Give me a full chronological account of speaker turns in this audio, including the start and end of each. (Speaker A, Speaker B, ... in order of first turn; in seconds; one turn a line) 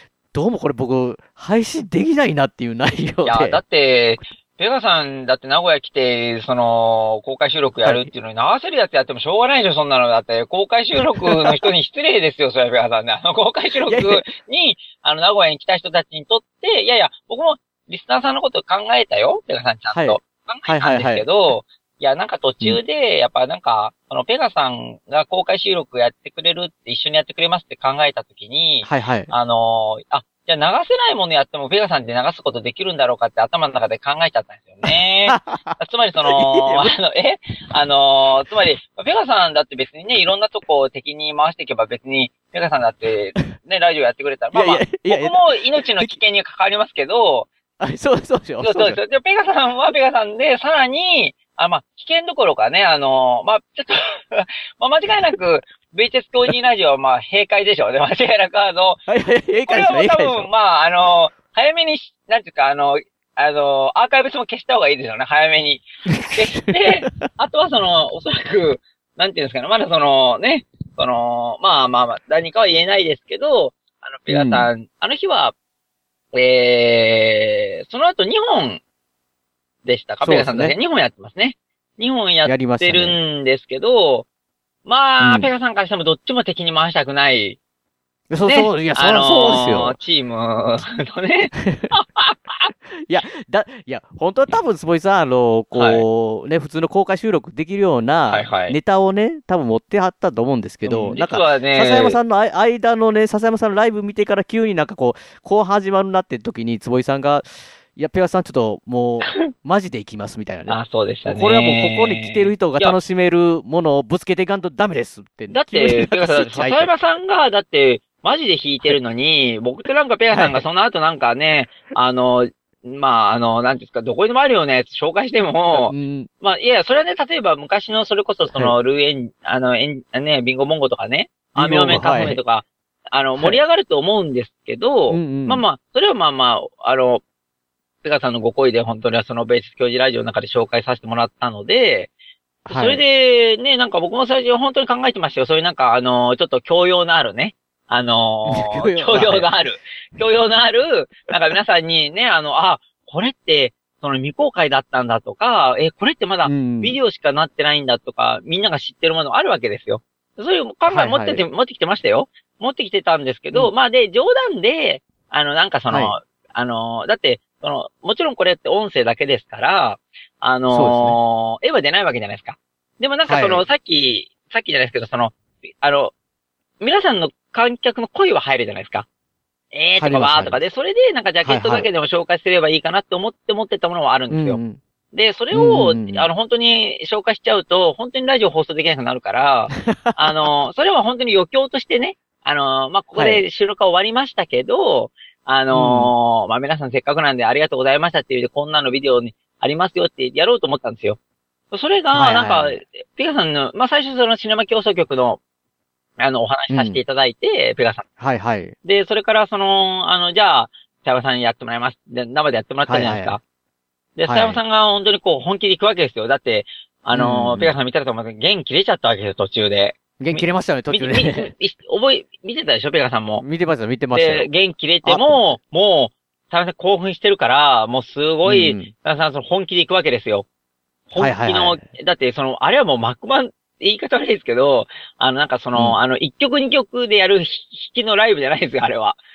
Speaker A: 0.3-3.6
Speaker B: 3.2-47.5
Speaker A: 7.8-8.1
Speaker A: 11.2-11.5
Speaker A: 13.9-14.3
Speaker A: 19.9-21.3
Speaker A: 28.8-29.3
Speaker A: 35.3-36.9
Speaker A: 44.5-46.2
Speaker A: 47.8-49.0
Speaker B: 48.6-59.0
Speaker A: 59.1-60.5
Speaker B: 59.7-75.5
Speaker A: 66.1-67.3
Speaker A: 74.3-74.7
Speaker B: 76.3-78.8
Speaker B: 79.8-84.3
Speaker A: 80.2-80.8
Speaker A: 82.4-83.2
Speaker B: 84.8-87.6
Speaker A: 85.2-85.5
Speaker A: 88.3-90.0
Speaker B: 88.5-92.7
Speaker A: 91.6-91.9
Speaker A: 93.1-116.9
Speaker B: 95.7-96.0
Speaker B: 98.3-98.8
Speaker B: 100.8-102.2
Speaker B: 110.7-113.0
Speaker B: 115.5-137.2
Speaker A: 120.3-120.6
Speaker A: 125.7-126.3
Speaker A: 128.4-128.8
Speaker A: 131.6-132.4
Speaker A: 135.1-135.6
Speaker B: 138.0-142.1
Speaker A: 142.7-143.0
Speaker B: 142.7-176.1
Speaker A: 148.5-149.5
Speaker A: 156.4-157.0
Speaker A: 160.9-161.4
Speaker A: 170.7-171.2
Speaker A: 173.3-173.7
Speaker B: 176.8-179.1
Speaker B: 179.7-184.6
Speaker A: 180.0-180.6
Speaker A: 181.4-181.9
Speaker A: 184.3-184.8
Speaker B: 185.1-201.2
Speaker A: 185.5-186.3
Speaker A: 190.1-190.3
Speaker A: 193.2-193.4
Speaker A: 195.7-196.1
Speaker B: 201.7-205.4
Speaker A: 202.1-202.8
Speaker B: 206.2-208.1
Speaker A: 206.7-207.0
Speaker A: 208.2-208.8
Speaker B: 208.8-213.4
Speaker A: 212.9-213.4
Speaker B: 214.2-223.4
Speaker A: 214.3-214.6
Speaker A: 217.1-217.7
Speaker A: 220.2-221.5
Speaker A: 223.4-224.5
Speaker B: 224.1-230.5
Speaker A: 225.0-225.6
Speaker A: 228.4-228.9
Speaker B: 231.1-239.2
Speaker A: 231.2-231.8